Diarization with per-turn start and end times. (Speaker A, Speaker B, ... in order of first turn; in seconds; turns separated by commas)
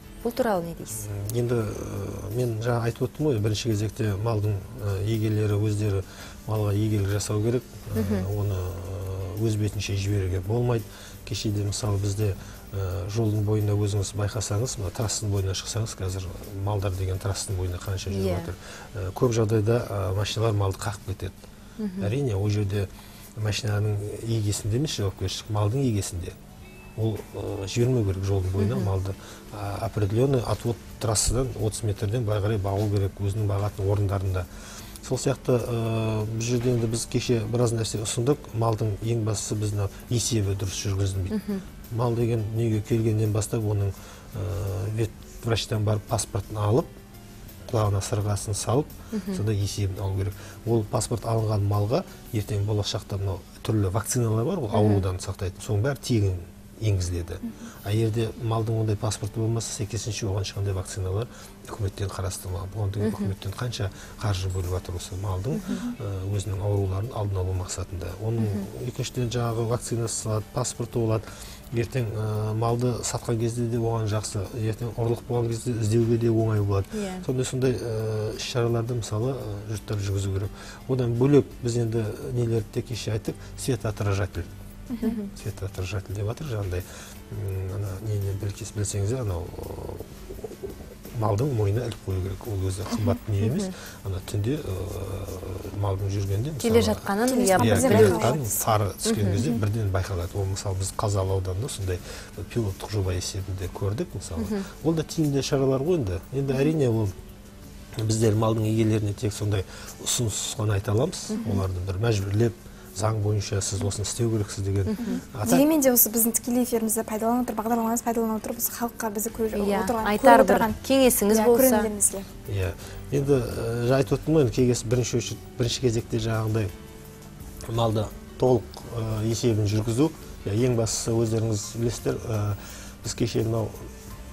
Speaker A: 0.2-1.0, Speaker B: 1.0-21.4, Speaker A: 7.9-8.2, Speaker A: 18.1-18.5, Speaker A: 21.8-22.1, Speaker B: 22.0-26.3, Speaker B: 27.0-34.5, Speaker A: 28.6-28.9, Speaker B: 35.0-41.4, Speaker A: 41.3-41.6, Speaker B: 41.9-46.9, Speaker B: 47.7-84.5, Speaker A: 49.1-49.4, Speaker A: 54.7-55.0, Speaker A: 63.0-63.3, Speaker A: 76.9-77.2, Speaker C: 84.9-85.2, Speaker A: 85.0-85.3, Speaker B: 85.3-107.1, Speaker A: 93.4-93.7, Speaker A: 96.6-98.3, Speaker C: 97.3-98.7, Speaker A: 99.0-99.4, Speaker A: 104.4-104.7, Speaker B: 108.0-115.6, Speaker A: 111.4-111.6, Speaker A: 114.9-115.2, Speaker C: 115.0-120.8, Speaker A: 119.5-121.9, Speaker C: 121.3-122.3, Speaker B: 122.5-126.7, Speaker B: 127.7-133.9